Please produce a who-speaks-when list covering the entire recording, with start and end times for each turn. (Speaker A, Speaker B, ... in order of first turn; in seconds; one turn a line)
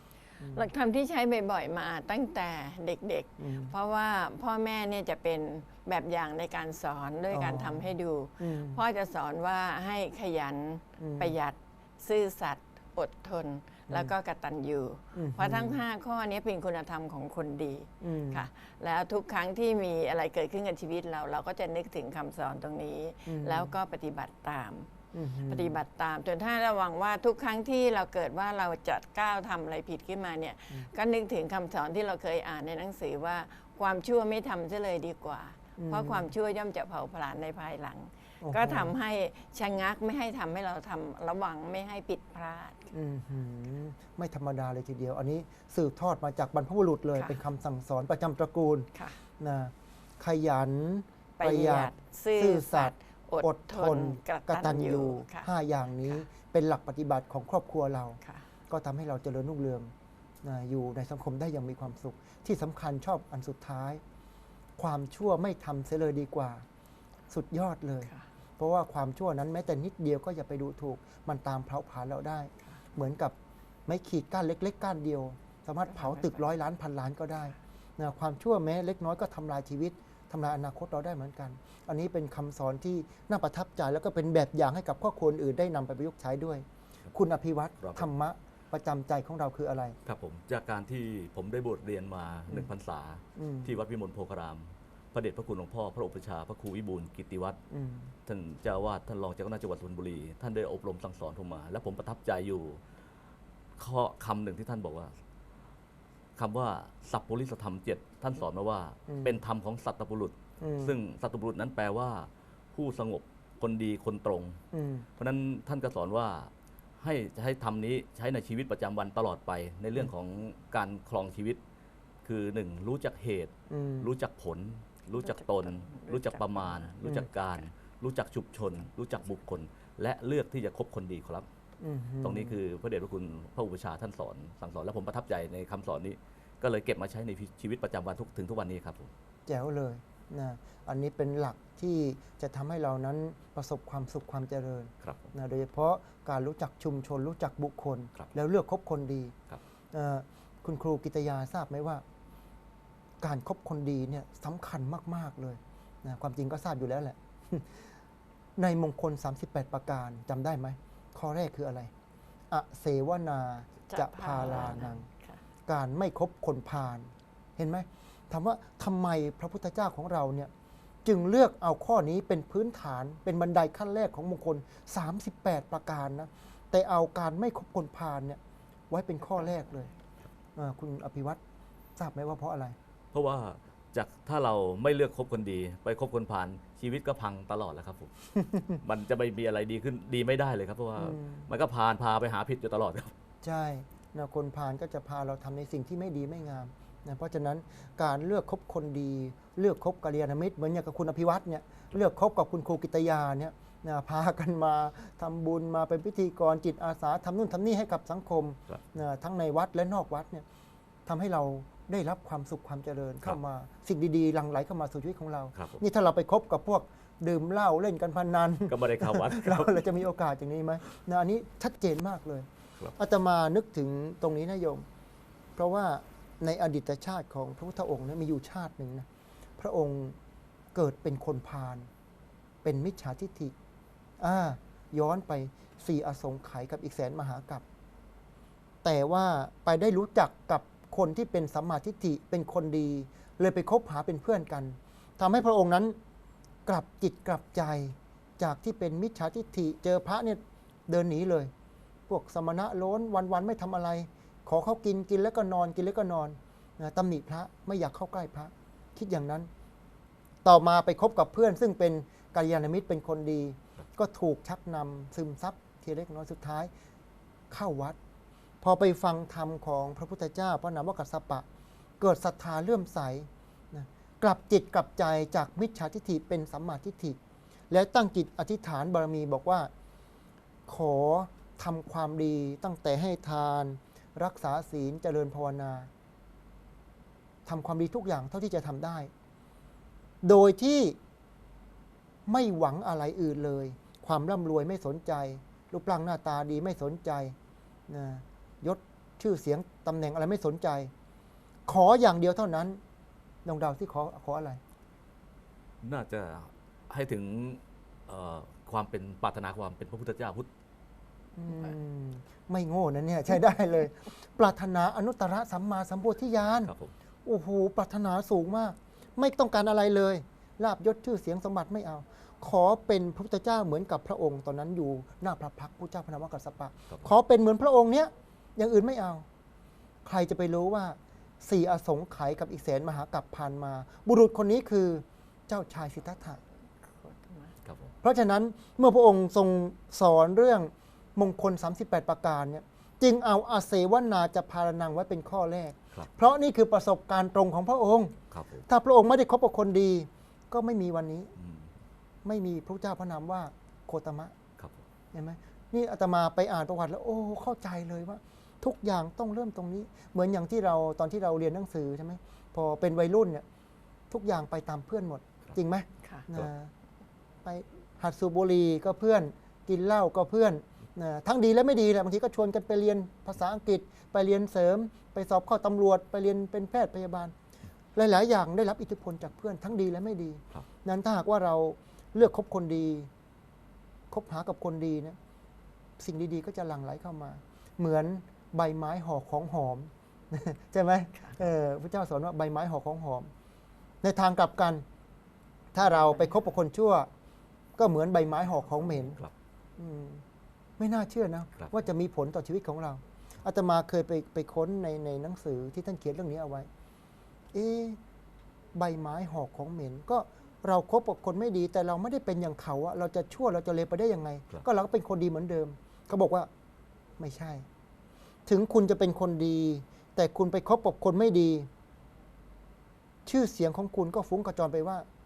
Speaker A: 0.4-0.7
Speaker B: 0.5-24.9
Speaker A: 3.4-3.7
Speaker A: 7.3-8.8
Speaker A: 11.0-11.3
Speaker A: 15.1-15.8
Speaker A: 18.0-18.5
Speaker A: 23.3-23.7
Speaker A: 25.1-25.8
Speaker B: 25.5-42.9
Speaker A: 35.8-36.3
Speaker A: 38.4-38.9
Speaker A: 42.9-59.9
Speaker B: 51.4-55.5
Speaker A: 60.4-64.0
Speaker A: 64.8-66.7
Speaker A: 67.3-73.3
Speaker A: 73.9-90.0
Speaker B: 75.9-76.4
Speaker C: 87.8-88.1
Speaker C: 90.1-97.6
Speaker A: 93.4-93.7
Speaker A: 97.7-98.1
Speaker C: 98.3-102.8
Speaker C: 103.8-105.1
Speaker C: 106.4-114.6
Speaker A: 109.1-109.4
Speaker A: 110.6-111.0
Speaker A: 114.7-115.1
Speaker C: 115.2-121.6
Speaker C: 122.2-131.5
Speaker A: 123.7-124.1
Speaker B: 125.2-127.0
Speaker A: 131.8-132.6
Speaker C: 132.2-139.1
Speaker A: 139.5-149.3
Speaker C: 145.0-145.3
Speaker A: 149.9-152.0
Speaker A: 153.2-157.9
Speaker A: 158.6-161.9
Speaker A: 162.5-165.1
Speaker B: 163.9-165.4
Speaker A: 165.7-170.5
Speaker A: 171.1-179.9
Speaker A: 180.6-181.4
Speaker A: 182.0-182.8
Speaker C: 183.1-188.1
Speaker A: 188.3-188.8
Speaker C: 188.8-193.1
Speaker A: 191.0-191.5
Speaker A: 193.4-210.4
Speaker A: 211.1-224.9
Speaker C: 215.6-215.8
Speaker C: 218.7-220.0
Speaker A: 225.6-229.1
Speaker A: 229.6-230.2
Speaker A: 230.7-231.9
Speaker A: 232.6-233.6
Speaker A: 234.2-237.6
Speaker A: 238.8-246.0
Speaker A: 246.7-251.5
Speaker A: 252.1-259.5
Speaker A: 260.4-266.7
Speaker A: 267.5-268.0
Speaker A: 268.6-271.5
Speaker A: 272.0-277.2
Speaker A: 277.7-279.7
Speaker A: 280.7-285.9
Speaker A: 287.5-289.1
Speaker A: 290.2-291.0
Speaker A: 292.3-297.4
Speaker A: 297.9-300.9
Speaker A: 301.7-302.8
Speaker A: 303.4-304.6
Speaker C: 305.8-310.5
Speaker A: 311.3-316.7
Speaker C: 316.6-316.9
Speaker A: 317.2-329.3
Speaker A: 330.0-336.4
Speaker B: 336.8-337.6
Speaker C: 337.6-337.9
Speaker A: 338.0-351.3
Speaker C: 348.3-348.7
Speaker C: 351.4-351.7
Speaker A: 352.2-354.4
Speaker C: 354.6-354.8
Speaker A: 355.1-363.4
Speaker A: 364.1-366.7
Speaker B: 366.0-366.3
Speaker A: 367.4-377.3
Speaker A: 377.9-383.1
Speaker A: 384.1-385.2
Speaker A: 386.0-393.3
Speaker A: 394.0-394.8
Speaker A: 395.7-397.1
Speaker A: 397.8-399.2
Speaker C: 399.0-399.3
Speaker A: 399.8-400.2
Speaker A: 400.8-406.7
Speaker A: 407.5-408.0
Speaker A: 408.8-416.5
Speaker A: 417.2-417.7
Speaker A: 418.5-421.7
Speaker A: 423.3-425.1